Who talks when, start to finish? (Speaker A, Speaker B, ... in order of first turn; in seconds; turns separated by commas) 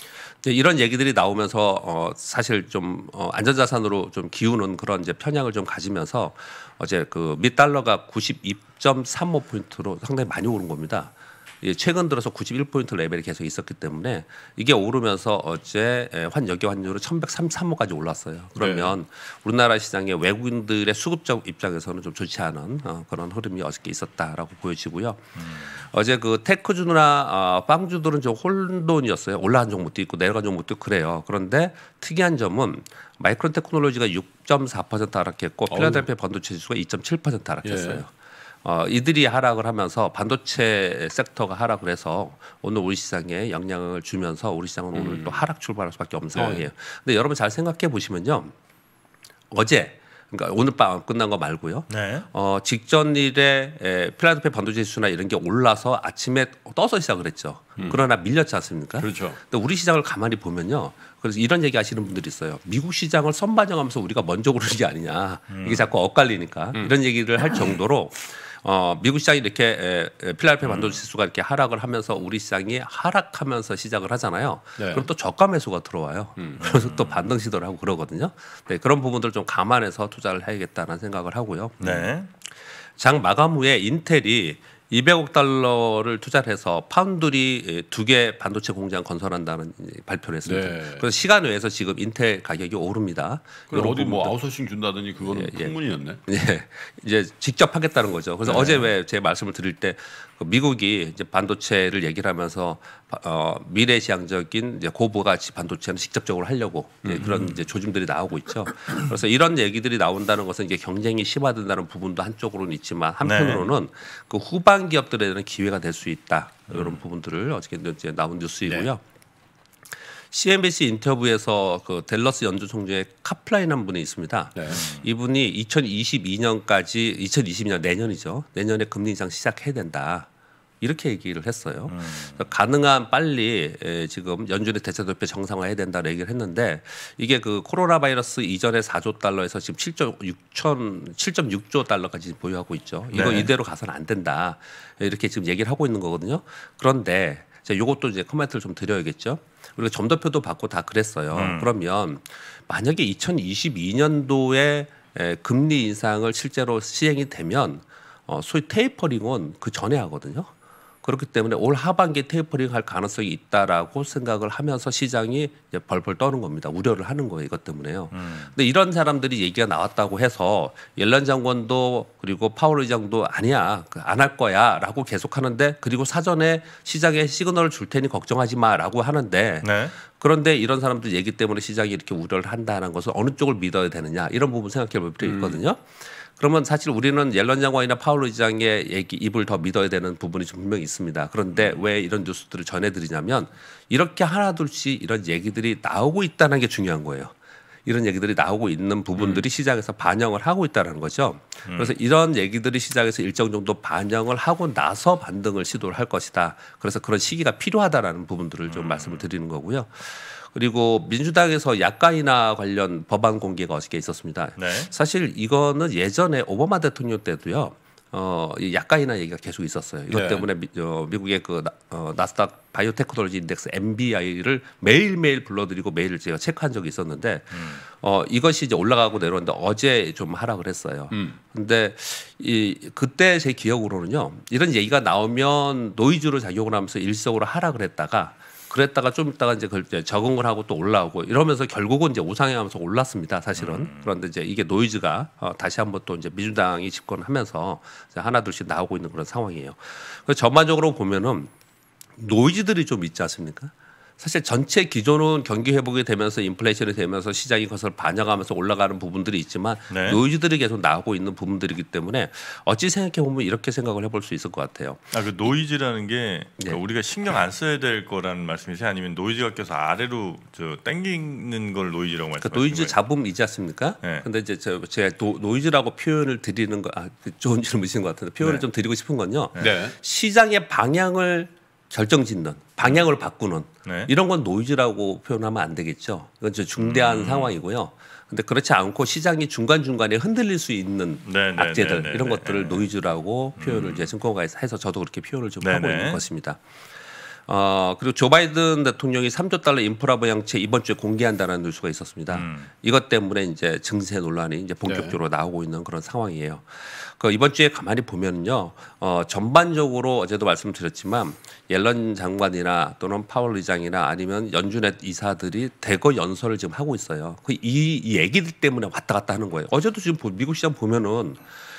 Speaker A: 0.4-38.1, Speaker B: 18.6-18.9, Speaker B: 35.7-36.1, Speaker B: 37.6-38.0, Speaker A: 38.6-48.5, Speaker B: 44.9-45.4, Speaker B: 46.4-46.6, Speaker A: 49.5-81.8, Speaker C: 51.9-52.3, Speaker B: 57.8-58.0, Speaker B: 59.0-59.4, Speaker C: 65.5-65.9, Speaker C: 70.6-71.0, Speaker B: 74.8-75.1, Speaker C: 76.6-77.2, Speaker C: 81.8-82.3, Speaker B: 81.8-82.1, Speaker A: 83.0-94.3, Speaker B: 90.4-91.1, Speaker B: 93.7-96.2, Speaker A: 95.2-119.0, Speaker B: 98.4-98.8, Speaker B: 107.0-107.3, Speaker C: 113.2-113.7, Speaker C: 116.7-117.0, Speaker A: 120.3-130.3, Speaker B: 124.5-124.8, Speaker C: 124.7-125.0, Speaker A: 130.8-160.5, Speaker C: 131.9-132.4, Speaker C: 143.1-143.5, Speaker C: 151.3-151.7, Speaker A: 161.0-197.3, Speaker C: 168.1-168.5, Speaker C: 179.6-179.9, Speaker B: 185.2-185.6, Speaker A: 197.8-251.5, Speaker C: 201.7-201.9, Speaker C: 208.7-209.2, Speaker C: 214.6-214.9, Speaker B: 220.1-220.5, Speaker C: 227.6-227.8, Speaker B: 231.1-231.4, Speaker C: 243.6-244.1, Speaker A: 252.2-265.1, Speaker C: 259.9-260.2, Speaker C: 265.1-272.9, Speaker A: 272.4-296.6, Speaker B: 279.6-279.9, Speaker C: 283.8-284.1, Speaker C: 286.8-287.6, Speaker C: 291.2-292.9, Speaker C: 293.6-294.1, Speaker C: 295.6-296.2, Speaker A: 297.5-321.4, Speaker C: 302.3-302.7, Speaker B: 304.9-305.2